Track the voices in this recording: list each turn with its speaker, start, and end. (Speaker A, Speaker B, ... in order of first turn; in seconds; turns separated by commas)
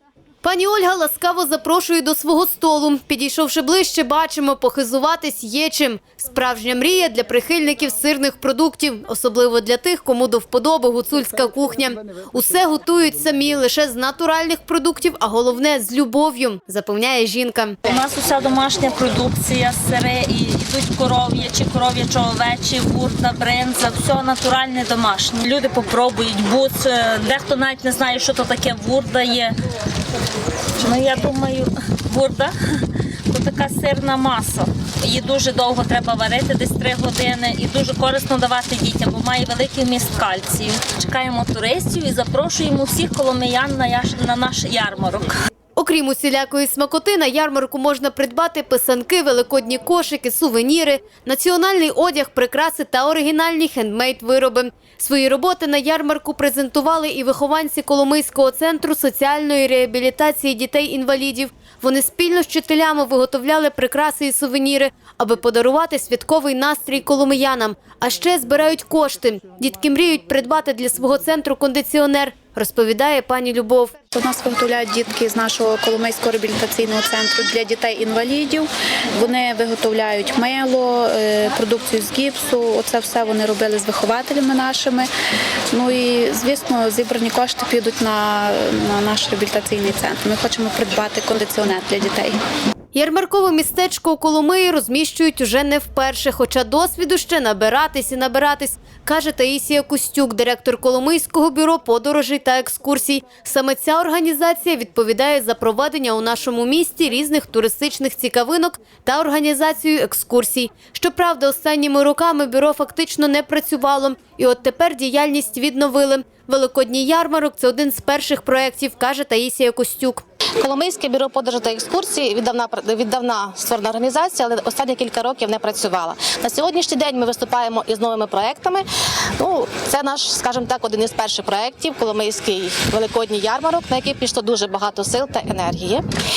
Speaker A: 0.4-17.8, Speaker B: 17.9-29.6, Speaker B: 30.8-32.5, Speaker B: 33.3-45.3, Speaker A: 45.8-74.0, Speaker C: 74.1-85.1, Speaker C: 85.7-92.4, Speaker A: 92.9-120.2, Speaker D: 120.6-128.9, Speaker D: 129.4-136.1